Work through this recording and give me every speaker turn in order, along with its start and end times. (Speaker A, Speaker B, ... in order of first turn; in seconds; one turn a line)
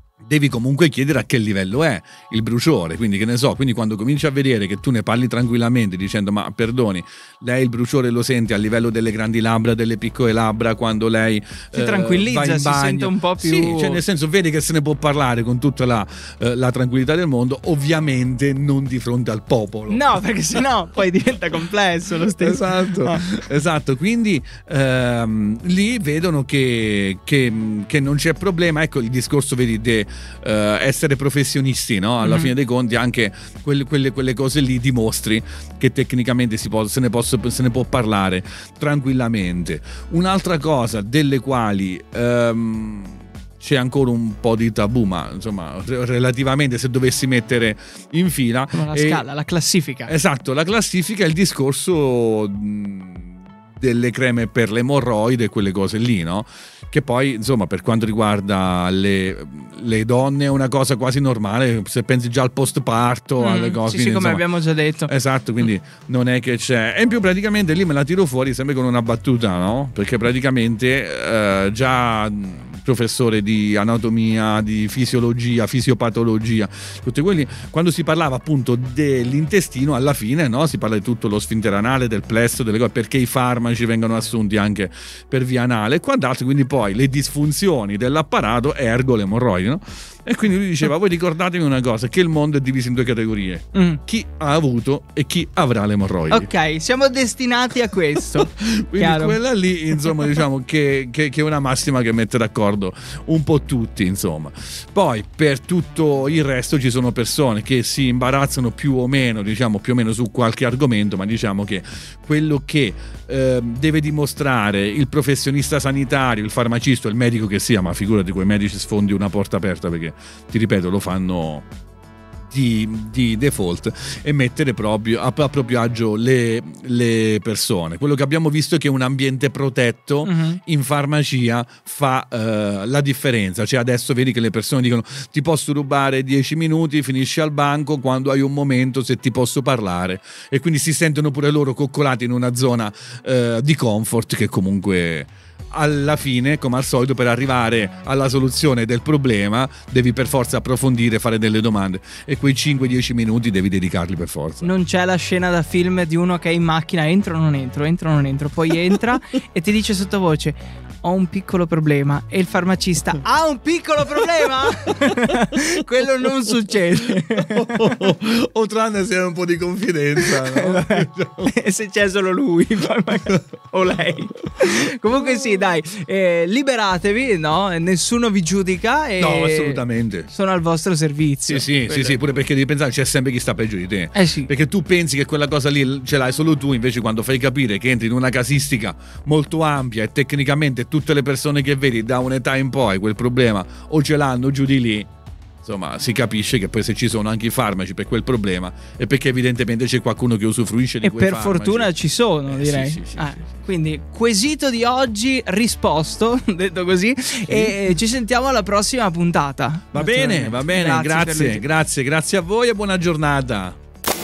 Speaker A: 0.3-20.1
Speaker B: 11.7-14.0
Speaker B: 19.9-23.2
Speaker A: 22.2-49.3
Speaker B: 32.2-32.5
Speaker B: 48.7-50.1
Speaker A: 50.1-64.5
Speaker B: 63.4-65.1
Speaker A: 65.1-96.5
Speaker B: 93.7-94.0
Speaker B: 96.3-99.4
Speaker A: 98.4-121.7
Speaker A: 122.5-154.7
Speaker B: 130.2-130.6
Speaker B: 154.6-167.9
Speaker A: 167.5-171.5
Speaker B: 170.2-182.4
Speaker A: 179.2-180.3
Speaker A: 181.5-195.1
Speaker B: 184.1-184.5
Speaker A: 195.6-201.9
Speaker B: 201.0-211.7
Speaker A: 202.5-203.4
Speaker A: 207.5-207.8
Speaker A: 209.9-213.8